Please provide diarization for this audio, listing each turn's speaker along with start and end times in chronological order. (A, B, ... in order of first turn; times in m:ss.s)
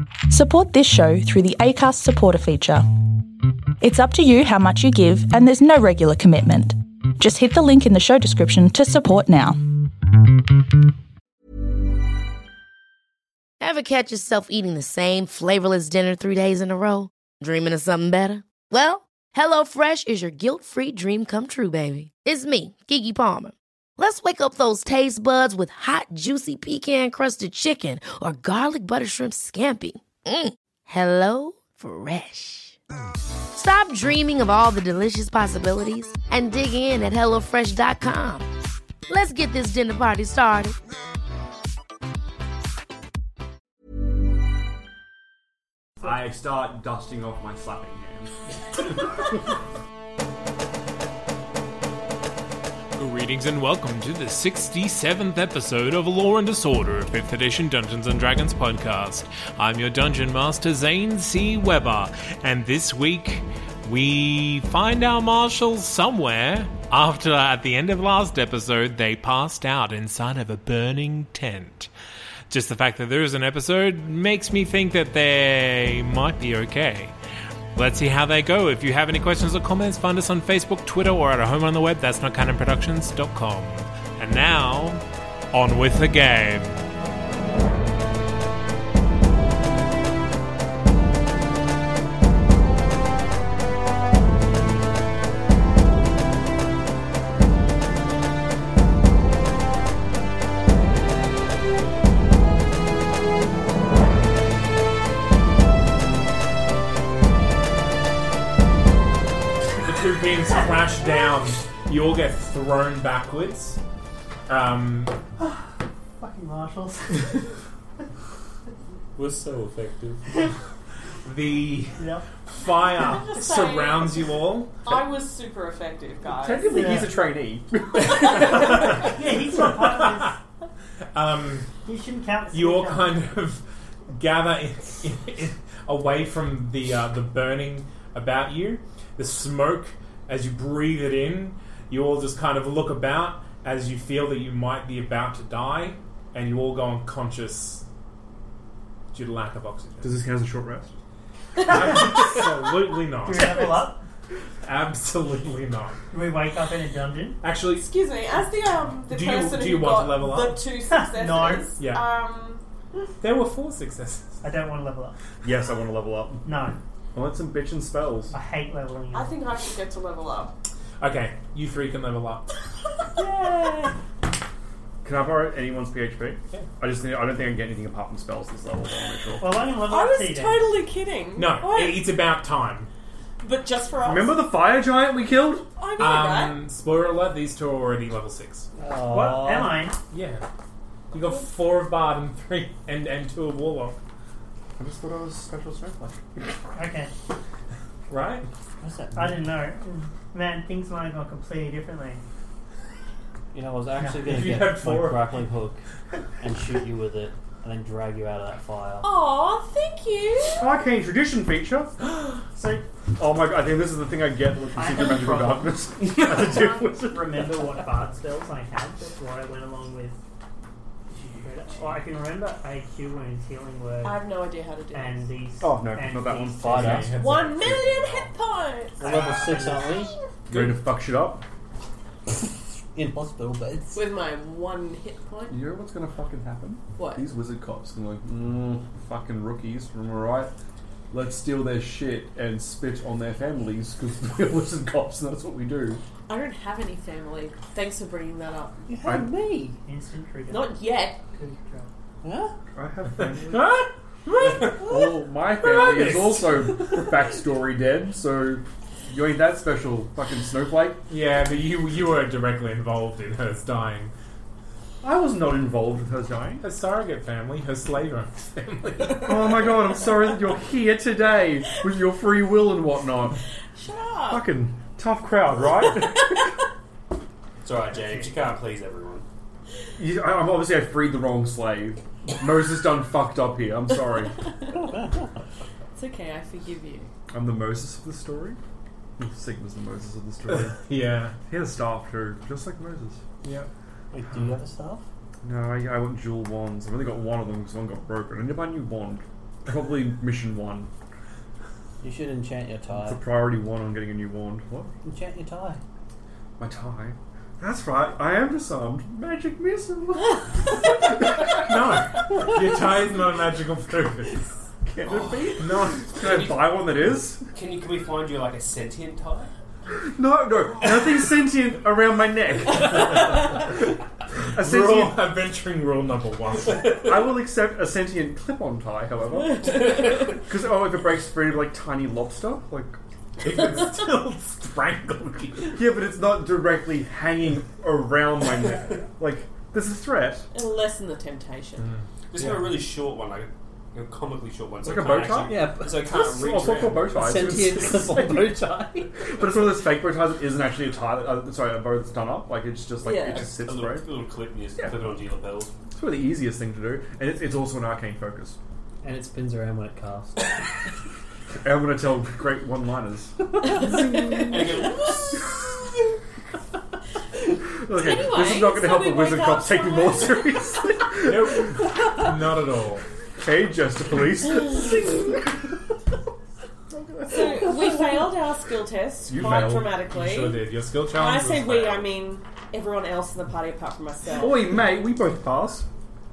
0:00.3-0:02.9 A
0:03.8-0:09.6 A
0:13.6-0:32.8 B
0:33.5-0:38.5 B
0:39.1-0:40.8 B
0:46.0-0:48.3 C
0:53.0-1:11.9 D
1:12.5-1:17.1 D
1:17.8-1:26.8 D
1:49.8-1:53.8 D
1:54.5-1:55.2 D
1:55.4-1:57.5 E
1:59.2-2:00.2 F
2:01.2-2:04.7 D
2:02.0-2:02.3 E
2:03.0-2:07.0 G
2:06.2-2:08.8 C
2:06.7-2:07.1 E
2:08.1-2:08.7 G
2:08.5-2:10.4 E
2:08.6-2:10.4 D
2:11.1-2:11.7 D
2:11.8-2:13.2 E
2:12.5-2:27.8 D
2:29.1-2:30.2 D
2:30.0-2:31.0 C
2:31.6-2:33.9 D
2:33.2-2:34.0 E
2:34.6-2:36.0 D
2:36.1-2:37.4 E
2:37.4-2:37.9 D
2:37.7-2:42.6 G
2:39.1-2:40.7 D
2:40.9-2:41.8 E
2:41.8-2:42.1 D
2:43.2-2:44.4 D
2:44.4-2:45.2 E
2:45.4-2:46.5 C
2:46.4-2:46.8 E
2:47.1-2:48.4 C
2:48.3-2:49.4 E
2:49.1-2:50.5 G
2:51.0-2:52.5 D
2:53.2-2:53.9 G
2:55.0-2:59.6 C
2:59.4-3:00.7 E
2:59.8-3:02.2 G
3:01.4-3:02.9 D
3:03.4-3:04.4 G
3:04.0-3:05.7 C
3:05.8-3:06.6 G
3:06.0-3:08.7 D
3:08.8-3:09.9 H
3:09.1-3:10.0 E
3:10.1-3:10.4 D
3:11.1-3:14.0 D
3:14.8-3:16.2 C
3:16.7-3:17.1 E
3:18.1-3:18.5 D
3:18.8-3:19.6 H
3:19.2-3:22.2 E
3:23.5-3:25.8 H
3:24.0-3:24.3 E
3:24.2-3:25.3 D
3:26.4-3:29.1 H
3:29.0-3:30.7 G
3:30.6-3:31.9 C
3:32.5-3:32.9 E
3:33.2-3:37.5 C
3:34.8-3:40.2 E
3:41.1-3:44.2 E
3:44.0-3:45.3 G
3:44.9-3:46.9 E
3:45.6-3:47.2 C
3:46.3-3:47.2 H
3:46.7-3:48.3 D
3:47.1-3:49.2 G
3:49.0-3:50.1 H
3:49.0-3:50.0 E
3:50.5-3:51.4 C
3:52.9-3:54.0 H
3:53.9-3:55.6 G
3:55.5-4:00.5 C
3:57.0-3:57.2 G
4:01.1-4:06.0 C
4:06.3-4:08.9 G
4:08.9-4:09.8 H
4:09.8-4:10.8 E
4:10.5-4:11.2 G
4:11.3-4:11.9 E
4:12.2-4:12.5 H
4:12.8-4:13.8 C
4:13.4-4:16.8 D
4:14.4-4:21.0 C
4:21.1-4:24.1 D
4:25.0-4:26.6 C
4:26.6-4:29.8 D
4:29.1-4:33.4 C
4:33.8-4:34.4 G
4:34.3-4:36.5 C
4:37.6-4:39.2 F
4:37.8-4:38.4 E
4:40.0-4:44.5 C
4:46.0-4:47.1 G
4:47.3-4:48.6 C
4:49.2-4:50.8 C
4:50.5-4:51.4 D
4:51.5-4:53.2 C
4:53.4-4:53.7 D
4:54.1-4:55.0 H
4:55.4-5:00.9 C
5:02.0-5:03.3 H
5:02.9-5:04.9 C
5:05.0-5:05.8 H
5:06.6-5:12.1 C
5:11.5-5:14.7 D
5:14.9-5:17.4 C
5:15.6-5:16.5 D
5:16.2-5:16.6 F
5:17.5-5:19.5 F
5:20.0-5:23.8 C
5:24.5-5:25.3 C
5:24.6-5:27.0 D
5:27.0-5:33.0 C
5:29.8-5:30.2 G
5:33.4-5:35.8 D
5:35.7-5:40.5 C
5:40.5-5:41.9 G
5:41.9-5:42.7 D
5:42.3-5:47.2 F
5:44.8-5:48.6 C
5:45.5-5:46.0 H
5:47.1-5:49.3 H
5:49.2-5:54.1 C
5:53.0-5:53.5 G
5:53.4-5:55.7 F
5:54.8-5:55.1 C
5:55.9-5:58.6 C
5:59.0-6:00.5 H
6:01.6-6:04.8 C
6:04.2-6:04.5 G
6:04.4-6:05.4 F
6:07.7-6:11.9 C
6:07.9-6:10.8 G
6:11.2-6:13.0 D
6:13.4-6:15.5 C
6:16.9-6:18.0 C
6:17.3-6:24.8 G
6:19.3-6:19.9 C
6:19.3-6:22.1 D
6:24.4-6:25.9 C